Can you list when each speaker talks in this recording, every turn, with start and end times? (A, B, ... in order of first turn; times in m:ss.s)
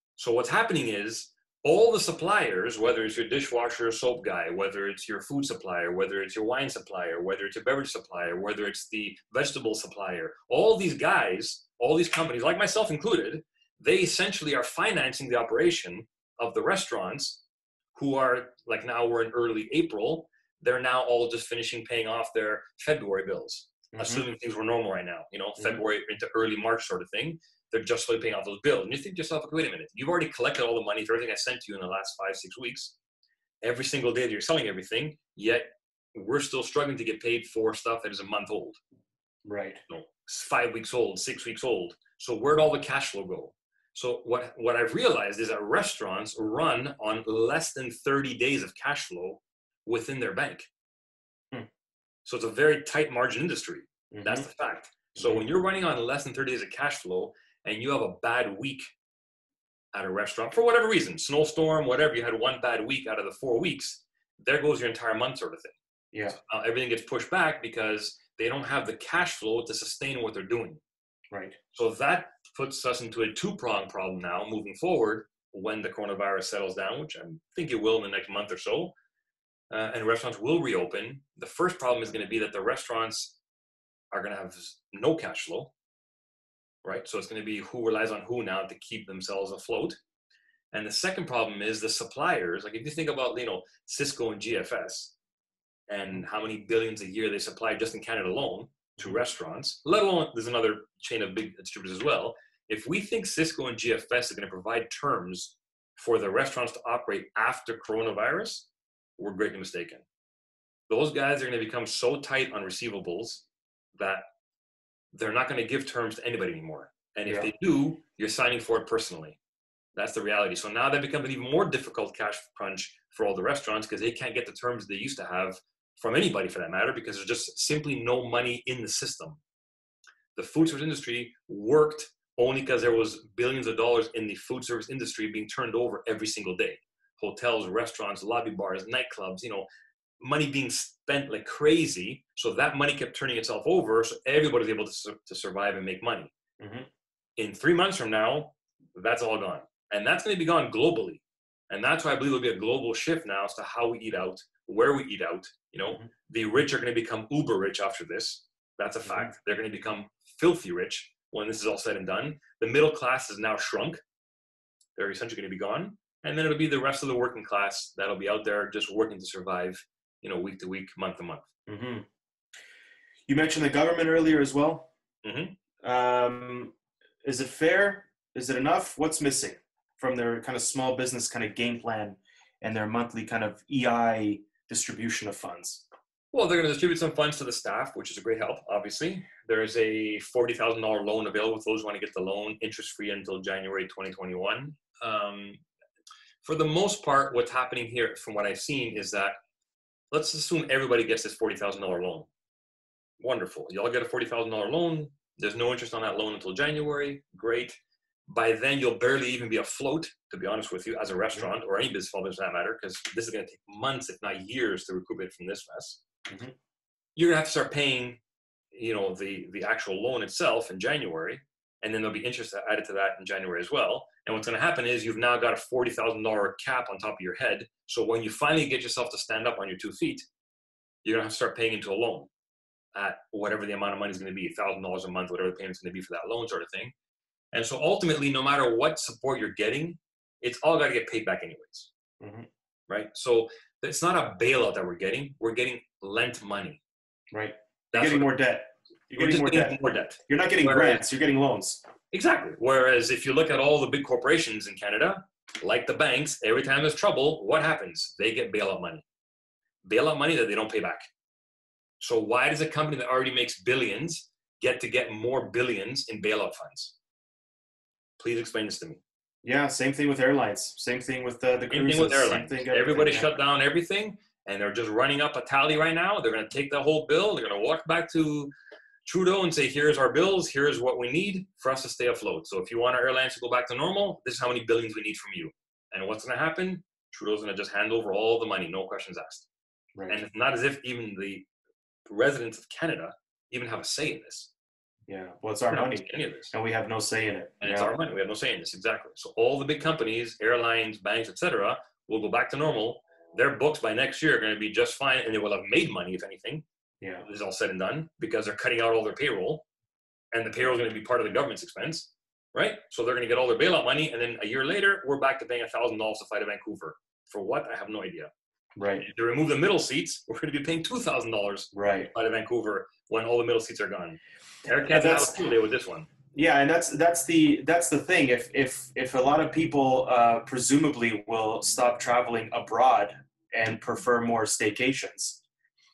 0:00.2-0:17.4 A
0:18.0-0:33.0 A
0:23.9-0:24.2 B
0:33.6-0:38.8 A
0:39.4-0:39.8 B
0:39.9-0:50.7 A
0:52.2-0:58.8 A
0:54.1-0:54.5 B
0:55.2-0:55.4 B
0:59.9-1:05.8 A
1:06.3-1:10.8 A
1:11.3-1:11.6 B
1:11.7-1:18.9 A
1:19.7-1:23.4 A
1:24.1-1:25.7 A
1:26.8-1:30.0 A
1:30.7-1:35.1 A
1:35.9-1:50.0 A
1:50.9-1:54.2 A
1:55.1-1:59.4 A
1:59.9-2:09.4 A
2:10.4-2:19.7 A
2:20.2-2:26.3 A
2:26.6-2:26.9 B
2:27.4-2:44.0 A
2:39.0-2:39.3 B
2:45.0-2:51.5 A
2:51.7-2:52.1 B
2:53.3-2:54.9 B
2:55.2-2:55.6 A
2:55.8-3:05.8 B
3:06.3-3:15.6 A
3:16.4-3:19.4 A
3:20.1-3:22.3 A
3:23.2-3:27.8 A
3:28.3-3:36.0 A
3:36.3-3:36.5 B
3:37.2-3:38.2 A
3:38.7-3:50.2 A
3:51.0-3:52.3 A
3:53.0-3:56.9 A
3:57.5-4:01.9 A
4:02.2-4:02.5 B
4:02.9-4:06.8 A
4:07.3-4:09.8 B
4:07.9-4:08.3 A
4:09.2-4:11.0 A
4:10.3-4:11.8 B
4:12.1-4:19.0 A
4:19.8-4:21.0 A
4:22.0-4:27.0 A
4:28.2-4:29.0 A
4:29.4-4:33.3 B
4:31.7-4:38.5 A
4:39.1-4:49.5 A
4:50.0-4:50.2 B
4:50.1-4:51.5 A
4:52.1-4:54.5 A
4:55.1-4:57.9 B
4:55.7-4:56.5 A
4:57.6-5:06.6 A
5:07.2-5:09.7 A
5:10.3-5:18.3 A
5:18.8-5:19.0 B
5:19.0-5:26.1 A
5:21.7-5:22.1 B
5:24.7-5:25.4 B
5:26.3-5:35.4 B